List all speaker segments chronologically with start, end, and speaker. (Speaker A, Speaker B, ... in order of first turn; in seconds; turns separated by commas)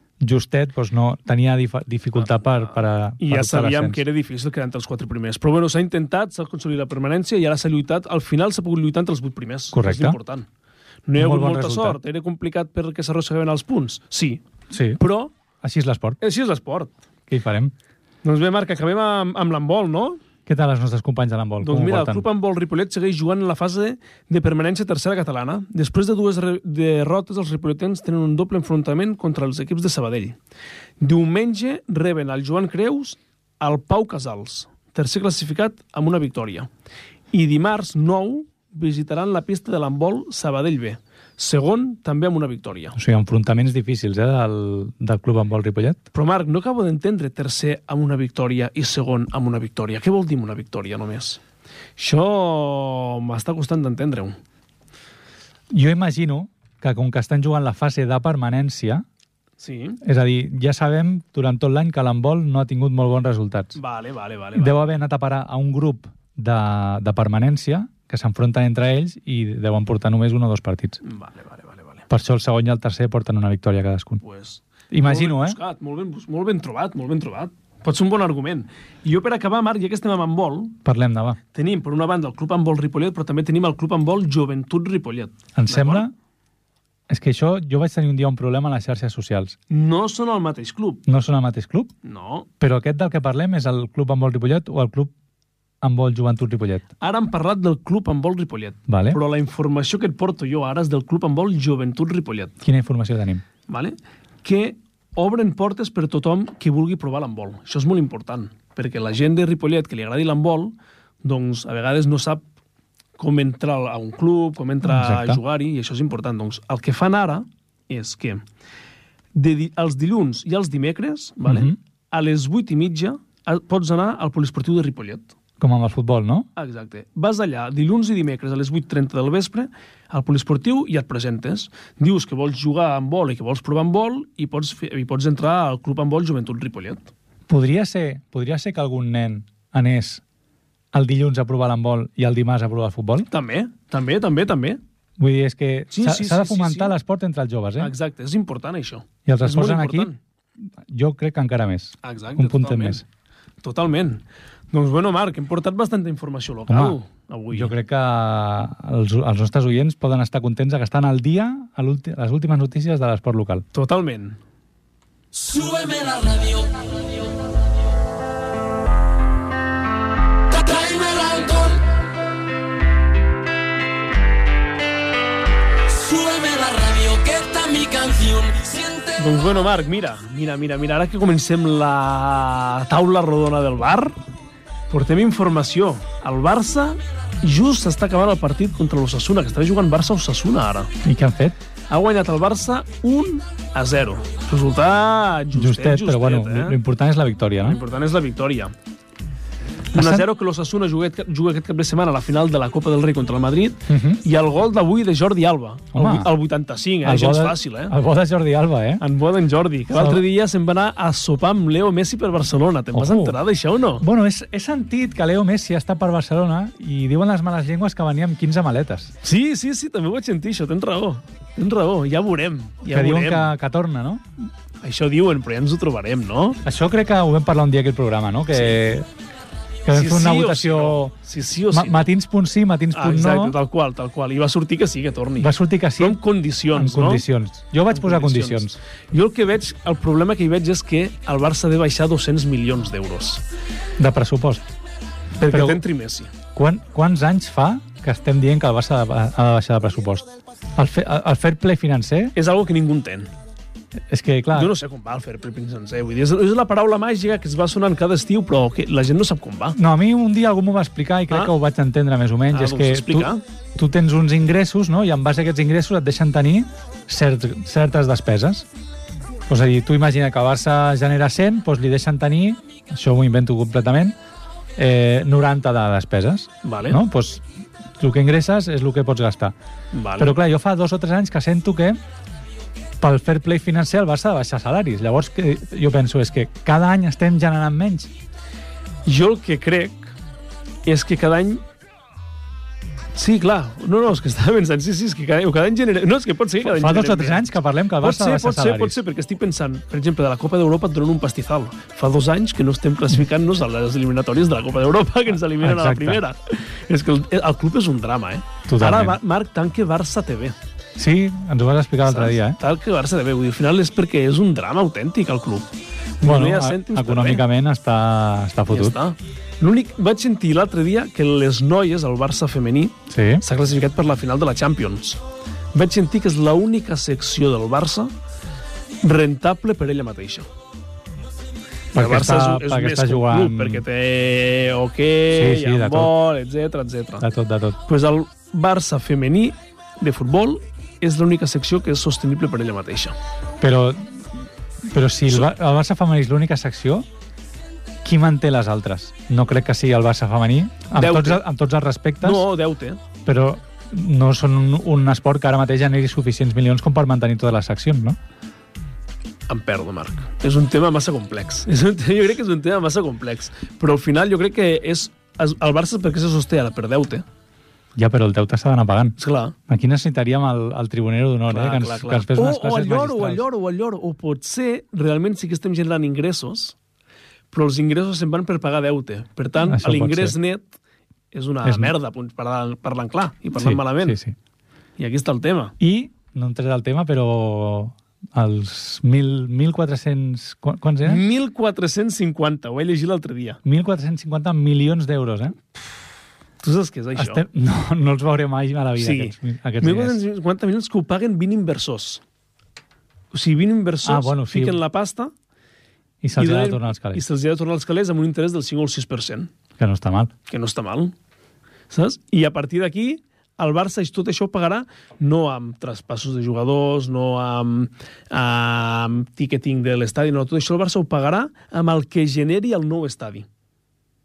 Speaker A: 0.2-4.0, Speaker B: 2.2-10.5, Speaker A: 9.7-10.2, Speaker B: 11.1-14.4, Speaker A: 11.2-12.0, Speaker A: 14.7-15.0, Speaker B: 15.0-15.3, Speaker A: 15.6-16.2, Speaker B: 16.2-16.9, Speaker A: 17.3-17.7, Speaker B: 18.2-20.2, Speaker A: 20.5-22.3, Speaker B: 21.6-30.4, Speaker B: 31.0-36.7, Speaker B: 37.3-43.0, Speaker A: 43.0-46.0, Speaker B: 46.1-51.4, Speaker B: 52.0-54.4, Speaker A: 55.7-59.0, Speaker B: 59.6-60.0, Speaker A: 60.0-63.8, Speaker B: 63.8-64.8, Speaker A: 64.5-71.0, Speaker B: 71.0-72.1, Speaker A: 72.1-74.2, Speaker B: 74.2-80.8, Speaker A: 74.9-75.6, Speaker A: 80.8-81.4, Speaker B: 81.5-86.1, Speaker A: 85.6-86.1, Speaker A: 87.1-89.6, Speaker B: 89.7-91.0, Speaker A: 91.1-91.9, Speaker B: 92.0-92.5, Speaker A: 92.6-95.1, Speaker A: 95.8-96.9, Speaker B: 97.0-102.6, Speaker A: 98.9-99.2, Speaker A: 102.6-103.4, Speaker B: 103.7-112.4, Speaker B: 113.2-118.4, Speaker A: 114.8-115.4, Speaker B: 119.3-125.3, Speaker A: 121.5-121.8, Speaker A: 125.6-126.5, Speaker B: 126.6-137.1, Speaker A: 137.5-140.2, Speaker A: 140.9-143.3, Speaker B: 143.3-144.8, Speaker A: 145.2-147.9, Speaker B: 145.9-146.9, Speaker B: 147.8-150.2, Speaker A: 149.3-150.1, Speaker A: 150.9-153.0, Speaker B: 152.0-153.0, Speaker B: 153.6-157.7, Speaker A: 156.7-157.0, Speaker A: 157.5-163.6, Speaker B: 163.7-164.4, Speaker C: 165.3-167.4, Speaker C: 170.5-171.9, Speaker C: 175.8-179.2, Speaker B: 179.2-184.2, Speaker B: 184.9-190.9, Speaker A: 191.0-191.6, Speaker B: 191.9-196.8, Speaker A: 195.5-197.8, Speaker B: 197.6-198.7, Speaker B: 199.9-207.9, Speaker A: 199.9-200.3, Speaker A: 203.9-204.2, Speaker A: 205.9-206.3, Speaker A: 207.0-209.0, Speaker B: 209.0-214.1, Speaker A: 209.9-210.2, Speaker A: 212.9-213.4, Speaker A: 214.0-219.1, Speaker B: 219.2-223.5, Speaker A: 222.9-224.2, Speaker B: 224.8-226.6, Speaker A: 226.6-229.1, Speaker A: 229.8-231.1, Speaker B: 229.9-232.0, Speaker A: 231.7-233.6, Speaker B: 232.9-237.2, Speaker A: 235.4-236.2, Speaker A: 236.7-238.8, Speaker B: 237.9-243.4, Speaker A: 244.0-244.6, Speaker B: 245.4-246.3, Speaker A: 245.5-245.8, Speaker A: 246.5-252.3, Speaker B: 252.3-253.3, Speaker A: 254.1-254.7, Speaker B: 254.5-259.8, Speaker A: 259.8-268.6, Speaker B: 262.5-263.4, Speaker A: 269.5-274.1, Speaker A: 274.8-277.4, Speaker B: 276.6-277.0, Speaker A: 278.0-279.5, Speaker B: 279.9-280.4, Speaker A: 280.2-282.0, Speaker A: 283.0-288.1, Speaker B: 289.1-290.1, Speaker B: 290.9-291.6, Speaker B: 293.1-297.5, Speaker A: 296.6-299.0, Speaker B: 298.0-310.6, Speaker A: 305.6-306.2, Speaker A: 308.7-309.2, Speaker A: 311.0-312.6, Speaker B: 312.1-315.7, Speaker B: 316.2-317.4, Speaker A: 316.2-319.0, Speaker B: 318.7-325.2, Speaker A: 323.1-323.4, Speaker B: 325.7-328.1, Speaker B: 329.0-330.5, Speaker A: 331.9-333.8, Speaker B: 331.9-337.3, Speaker A: 335.3-336.1, Speaker A: 337.2-337.8, Speaker B: 337.9-343.1, Speaker A: 343.6-344.2, Speaker A: 344.9-347.1, Speaker A: 348.0-352.5, Speaker B: 350.9-351.4, Speaker B: 352.2-353.0, Speaker A: 353.2-358.2, Speaker B: 359.5-367.2, Speaker A: 368.0-373.4, Speaker B: 369.2-369.6, Speaker B: 371.5-376.8, Speaker B: 377.5-380.8, Speaker A: 379.6-380.4, Speaker B: 381.3-384.2, Speaker A: 381.6-381.9, Speaker A: 383.6-384.4, Speaker B: 385.0-385.8, Speaker A: 385.8-391.2, Speaker B: 391.0-393.6, Speaker A: 393.6-395.9, Speaker B: 396.6-397.4, Speaker A: 397.1-400.2, Speaker B: 399.0-402.2, Speaker B: 403.3-405.3, Speaker A: 404.1-404.8, Speaker A: 406.2-407.2, Speaker B: 406.4-409.5, Speaker A: 409.8-410.3, Speaker B: 410.5-411.1, Speaker B: 411.9-423.5